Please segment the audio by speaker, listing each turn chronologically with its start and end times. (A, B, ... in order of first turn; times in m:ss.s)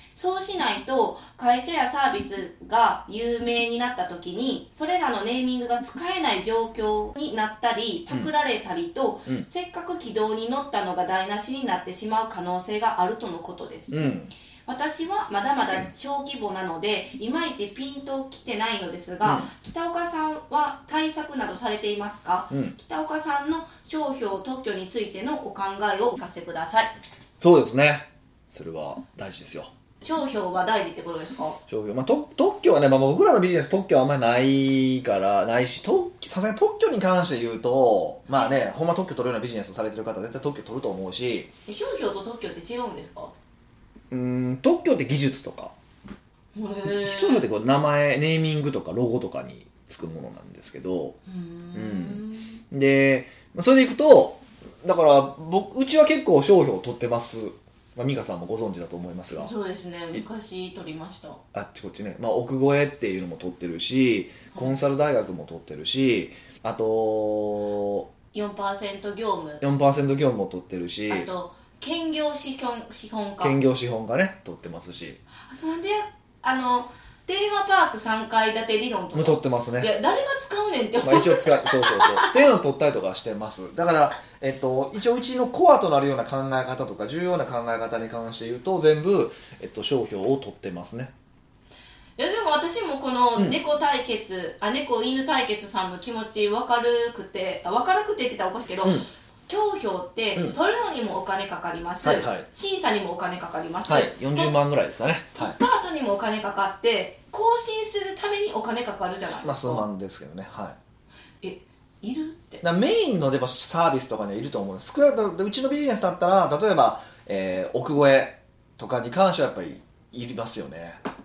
0:00.2-0:14.0 A
0:13.9-0:14.3 B
0:14.7-0:26.9 A
0:19.2-0:19.5 B
0:27.4-0:29.7 B
0:30.0-0:31.6 A
0:31.7-0:41.5 B
0:41.7-0:43.3 A
0:44.1-0:45.7 B
0:46.5-0:47.5 A
0:46.9-0:51.2 B
0:51.3-0:52.6 A
0:51.7-0:59.5 B
0:59.3-1:01.4 A
1:01.5-1:08.1 B
1:08.3-1:09.6 A
1:09.6-1:11.3 B
1:11.1-1:13.6 A
1:13.4-1:15.2 B
1:15.5-1:22.4 A
1:19.1-1:19.9 B
1:21.0-1:31.1 B
1:32.2-1:44.5 A
1:42.0-1:42.4 B
1:43.9-1:45.6 B
1:45.4-1:49.9 A
1:49.3-1:50.8 B
1:51.4-1:52.6 A
1:52.6-2:01.0 B